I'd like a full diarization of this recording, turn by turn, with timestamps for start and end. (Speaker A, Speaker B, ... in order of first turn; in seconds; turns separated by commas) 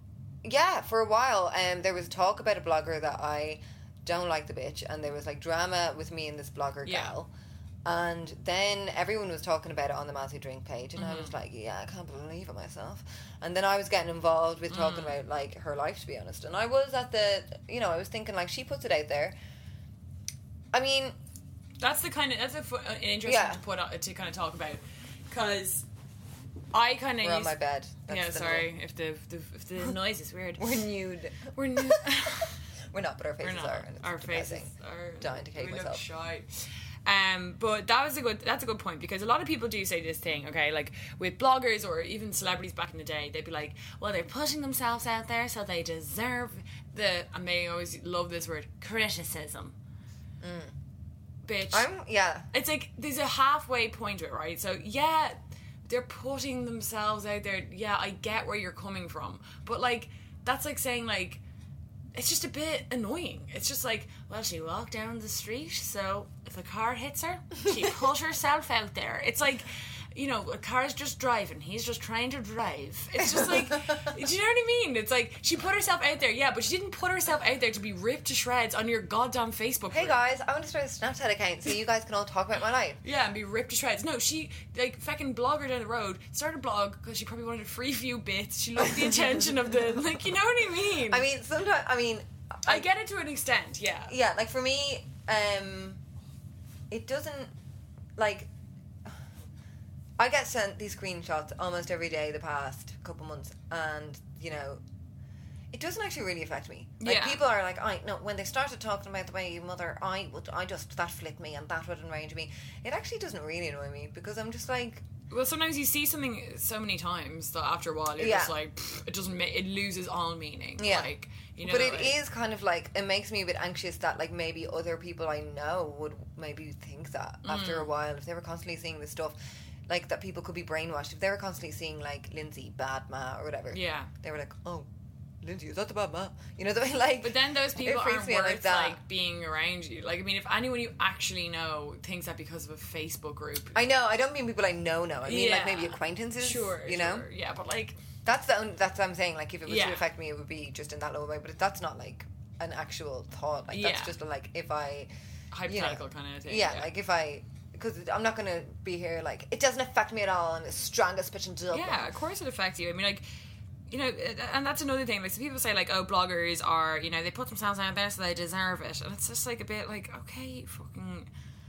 Speaker A: 0.4-7.3, Speaker B: 6.8-7.1, Speaker A: 7.8-19.3, Speaker B: 11.0-11.3, Speaker B: 14.7-15.2, Speaker A: 20.7-21.1, Speaker B: 21.8-25.8, Speaker A: 23.2-23.6, Speaker B: 26.7-27.6, Speaker A: 27.2-28.7, Speaker B: 28.1-30.9, Speaker A: 30.6-36.0, Speaker B: 31.5-32.5, Speaker B: 33.4-49.7, Speaker A: 50.4-50.8, Speaker B: 51.4-51.9, Speaker A: 51.7-52.5, Speaker B: 52.5-61.4, Speaker B: 62.1-80.2, Speaker A: 73.2-74.0, Speaker A: 79.9-83.0, Speaker B: 83.0-91.3, Speaker A: 91.1-92.8, Speaker B: 92.7-94.1, Speaker A: 94.1-96.0, Speaker A: 96.9-97.5, Speaker A: 98.2-98.5, Speaker A: 100.2-104.8, Speaker A: 105.7-115.0, Speaker B: 107.0-107.4, Speaker B: 115.3-122.2, Speaker A: 118.2-118.5, Speaker A: 120.8-134.9, Speaker B: 127.4-127.9, Speaker B: 133.7-134.1, Speaker A: 135.4-139.0, Speaker B: 137.2-143.8, Speaker A: 143.7-147.2, Speaker B: 145.2-148.0, Speaker A: 148.2-155.1, Speaker B: 149.7-150.1, Speaker B: 153.7-154.1, Speaker B: 155.5-156.9, Speaker A: 155.7-162.1, Speaker B: 161.7-163.2, Speaker B: 163.9-171.3